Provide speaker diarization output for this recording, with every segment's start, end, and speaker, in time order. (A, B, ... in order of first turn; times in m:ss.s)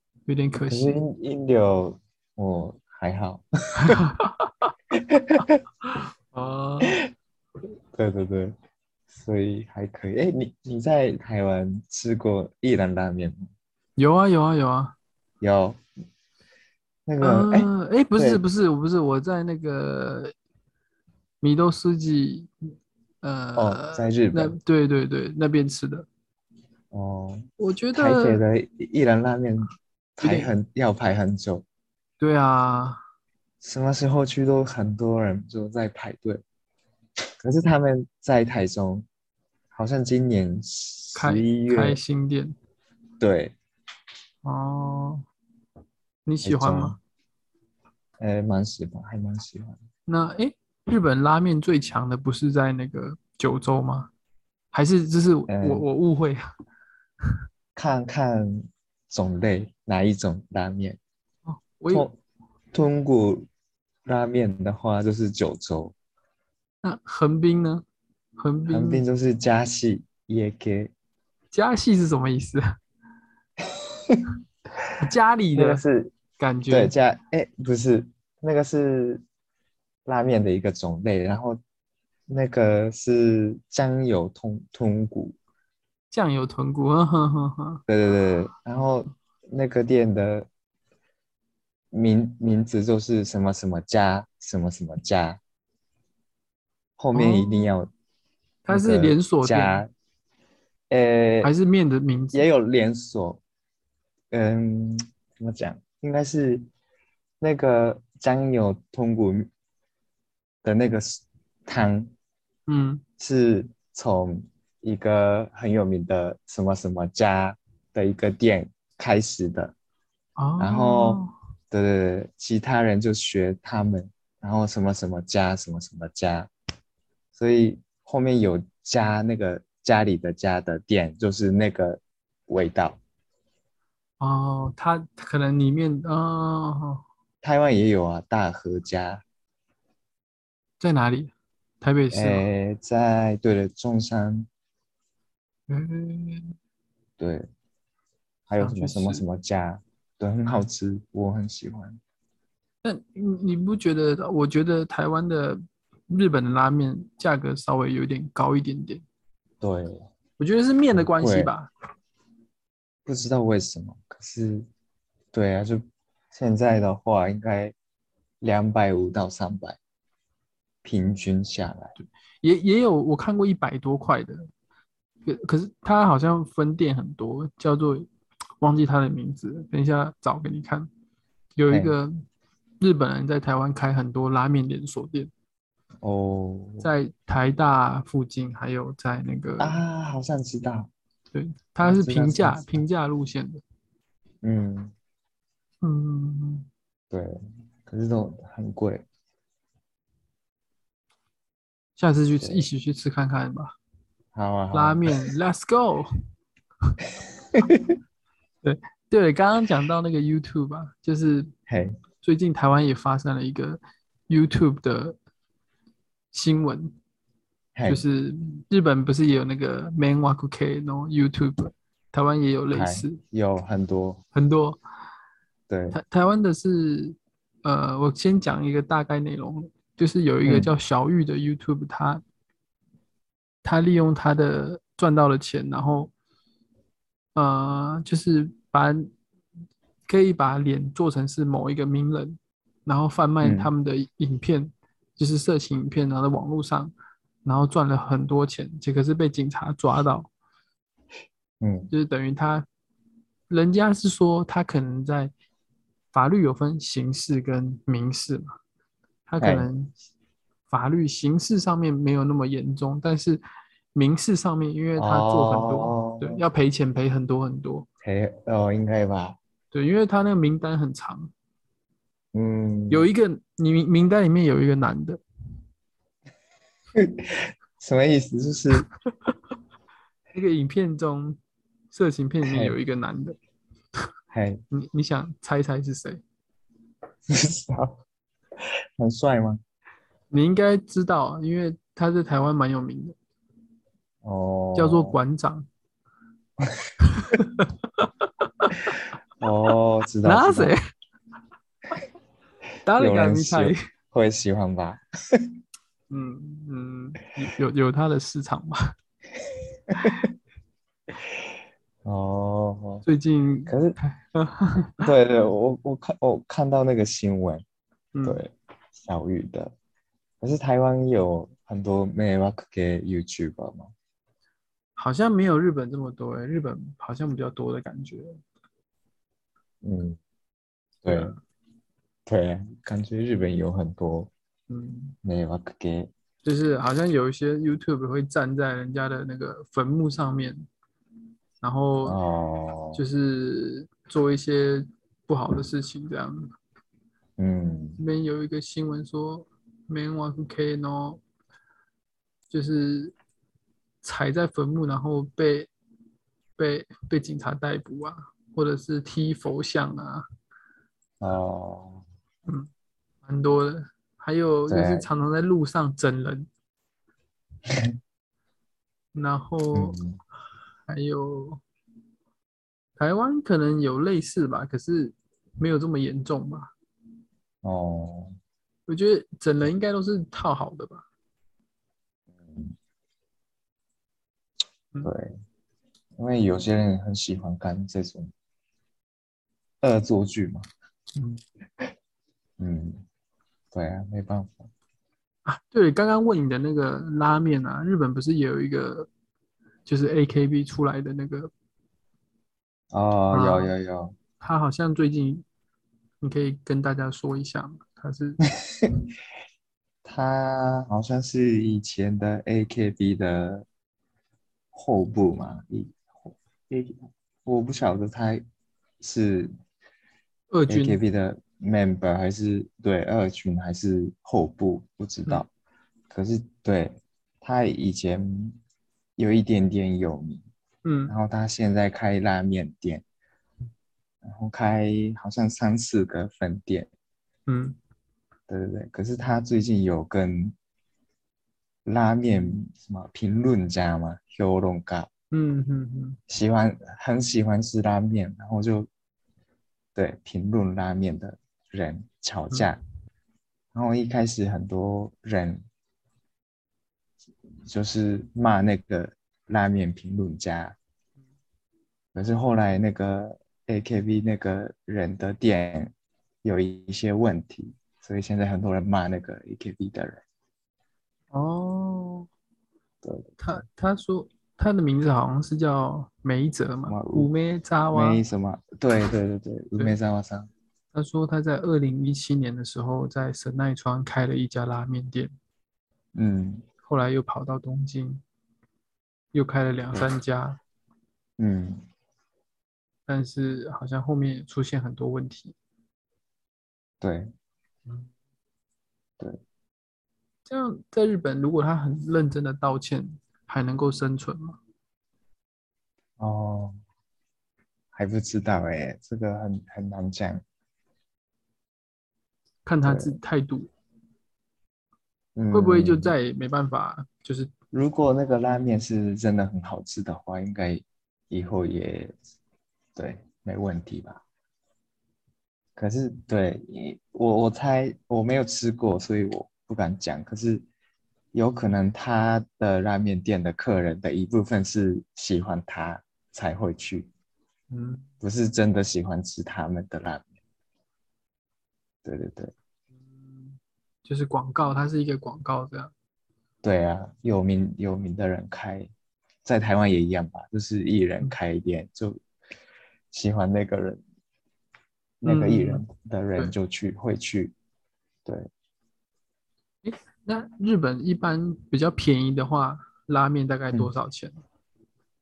0:00.3-0:01.0 A
0:00.6-0:04.0 B
0:03.9-0:04.5 A
0:05.2-0:05.5 B
0:05.8-0:07.0 A
0:07.9-0:08.6 B
0:09.1-0:13.5 B
0:14.0-0:14.9 A
0:15.4-0:15.8 B
0:17.0-0:18.4 B
0:17.2-0:20.3 A
0:21.4-0:22.5 A
0:23.2-0:26.1 A
0:23.6-0:24.5 B
0:26.9-0:31.6 B
0:27.6-0:28.4 A
0:30.2-0:30.5 A
0:32.2-0:33.0 A
0:33.6-0:36.4 B
0:37.4-0:39.1 B
0:39.7-0:42.0 B
0:41.1-0:42.6 A
0:43.2-0:43.5 B
0:44.4-0:45.2 A
0:46.2-0:47.0 A
0:46.4-0:47.0 B
0:48.2-0:49.8 B
0:50.1-0:54.1 A
0:54.7-0:56.4 A
0:55.5-0:55.8 B
0:57.7-1:01.0 B
1:01.4-1:02.1 A
1:01.9-1:02.2 B
1:02.7-1:03.4 B
1:04.0-1:05.9 B
1:06.8-1:07.8 A
1:08.4-1:09.0 A
1:08.7-1:10.9 B
1:11.5-1:12.6 A
1:15.0-1:15.8 A
1:15.5-1:16.1 B
1:16.4-1:16.9 A
1:16.7-1:19.2 B
1:20.0-1:21.6 B
1:22.3-1:25.4 B
1:26.1-1:27.8 A
1:27.9-1:30.5 B
1:31.9-1:35.4 B
1:37.0-1:37.9 B
1:37.1-1:37.8 A
1:38.6-1:39.8 A
1:38.7-1:39.9 B
1:40.9-1:41.5 B
1:41.4-1:42.5 A
1:42.3-1:43.4 B
1:44.3-1:46.6 B
1:47.4-1:49.5 B
1:50.6-1:52.1 B
1:52.7-1:53.0 A
1:53.2-1:59.7 B
2:00.4-2:01.3 A
2:00.6-2:06.5 B
2:07.3-2:13.0 B
2:14.2-2:17.0 A
2:17.4-2:19.2 B
2:20.8-2:22.4 A
2:22.1-2:24.5 B
2:25.7-2:26.5 A
2:27.2-2:27.5 B
2:28.5-2:32.0 B
2:28.6-2:29.2 A
2:32.8-2:39.0 A
2:39.6-2:40.1 B
2:40.4-2:41.7 A
2:40.9-2:41.5 B
2:43.0-2:44.7 B
2:45.3-2:47.7 B
2:48.4-2:49.8 B
2:50.8-2:51.9 B
2:52.0-2:54.5 A
2:55.2-2:58.1 A
2:58.6-3:00.9 A
3:01.6-3:02.2 A
3:01.7-3:02.0 B
3:02.8-3:05.3 A
3:06.0-3:06.9 B
3:06.8-3:09.8 A
3:09.6-3:10.9 B
3:11.3-3:13.6 A
3:11.8-3:12.8 B
3:14.4-3:14.9 B
3:15.8-3:16.7 A
3:17.1-3:17.4 B
3:17.9-3:19.0 B
3:22.0-3:23.7 A
3:22.4-3:22.6 B
3:24.3-3:25.1 B
3:24.7-3:26.1 A
3:27.6-3:27.9 B
3:28.6-3:31.5 A
3:31.7-3:32.0 B
3:32.2-3:35.2 A
3:36.3-3:36.9 A
3:37.7-3:38.0 B
3:37.8-3:43.2 A
3:42.7-3:44.2 B
3:44.3-3:44.8 A
3:45.7-3:46.0 B
3:45.9-3:52.2 A
3:50.4-3:50.7 B
3:53.6-3:56.1 A
3:57.3-3:59.1 A
4:00.1-4:06.9 A
4:03.4-4:03.7 B
4:07.4-4:10.3 A
4:11.6-4:11.9 B
4:11.9-4:12.6 A
4:13.5-4:15.3 A
4:16.1-4:18.5 A
4:19.3-4:20.0 A
4:19.4-4:19.7 B
4:20.7-4:23.4 A
4:23.9-4:27.8 A
4:25.0-4:26.4 B
4:28.0-4:29.4 B
4:29.7-4:31.3 A
4:32.3-4:33.1 B
4:32.9-4:35.2 A
4:36.9-4:38.9 B
4:40.3-4:41.4 A
4:41.9-4:43.4 A
4:42.4-4:42.8 B
4:44.3-4:44.6 B
4:44.7-4:46.2 A
4:47.3-4:48.0 B
4:49.0-4:49.6 B
4:50.3-4:53.2 A
4:54.2-4:55.2 B
4:54.7-4:55.7 A
4:57.1-4:59.0 A
4:59.4-5:00.8 B
5:00.2-5:00.8 A
5:02.8-5:03.8 A
5:03.0-5:05.5 B
5:06.1-5:08.9 A
5:12.0-5:13.0 B
5:13.0-5:13.7 A
5:13.7-5:14.0 B
5:14.3-5:15.0 A
5:15.0-5:17.6 B
5:18.1-5:18.4 A
5:18.2-5:19.7 B
5:20.4-5:23.9 B
5:25.0-5:28.4 A
5:29.8-5:30.2 B
5:31.0-5:31.4 B
5:31.0-5:31.4 A
5:32.2-5:34.3 B
5:34.7-5:35.2 A
5:35.2-5:36.1 B
5:36.4-5:40.6 A
5:41.6-5:42.2 A
5:42.0-5:43.0 B
5:42.9-5:46.5 A
5:47.4-5:48.0 B
5:48.0-5:51.2 A
5:52.5-5:53.1 A
5:54.0-5:55.7 A
5:56.6-6:00.2 A
6:01.2-6:02.0 B
6:03.2-6:06.5 A
6:04.7-6:05.1 B
6:09.1-6:10.0 A
6:09.7-6:10.2 B
6:10.9-6:11.6 A
6:13.0-6:16.7 A
6:17.6-6:18.4 B
6:18.9-6:21.0 A
6:22.4-6:22.7 B
6:25.0-6:25.3 B
6:26.2-6:28.3 B
6:29.8-6:30.7 B
6:32.6-6:33.0 B
6:33.7-6:34.7 B
6:35.4-6:39.1 A
6:39.8-6:41.5 A
6:42.9-6:44.2 B
6:43.3-6:43.7 A
6:44.4-6:45.4 A
6:46.2-6:48.4 A
6:50.0-6:53.6 B
6:54.7-6:58.4 B
6:59.0-6:59.5 B
7:00.5-7:01.0 A
7:00.7-7:05.5 B
7:06.1-7:08.6 B
7:09.2-7:10.4 B
7:10.8-7:11.2 A
7:11.1-7:13.0 B
7:14.2-7:16.9 B
7:17.5-7:17.8 A
7:18.5-7:20.5 B
7:21.8-7:25.1 B
7:25.3-7:26.2 A
7:26.3-7:28.9 B
7:29.9-7:32.8 B
7:33.7-7:35.6 B
7:37.6-7:40.8 B
7:42.1-7:50.2 B
7:51.3-7:52.3 A
7:53.0-7:53.6 B
7:53.4-7:58.2 A
7:56.8-7:57.3 B
7:57.9-8:00.5 B
8:00.9-8:05.3 A
8:06.1-8:06.6 B
8:06.8-8:08.2 A
8:09.3-8:10.6 A
8:11.4-8:11.8 B
8:13.1-8:15.5 A
8:17.0-8:17.3 B
8:20.5-8:24.6 A
8:26.2-8:26.8 B
8:27.9-8:30.4 B
8:32.6-8:33.7 A
8:32.8-8:33.2 B
8:35.4-8:36.1 B
8:35.5-8:37.5 A
8:37.7-8:42.1 B
8:43.0-8:44.2 B
8:45.8-8:50.6 B
8:51.3-8:57.1 B
8:57.7-8:58.0 A
8:58.2-9:00.3 B
9:02.0-9:02.5 B
9:03.3-9:05.9 A
9:06.6-9:08.9 B
9:09.4-9:12.2 B
9:13.1-9:14.0 B
9:15.2-9:17.5 B
9:15.2-9:15.8 A
9:19.8-9:24.4 A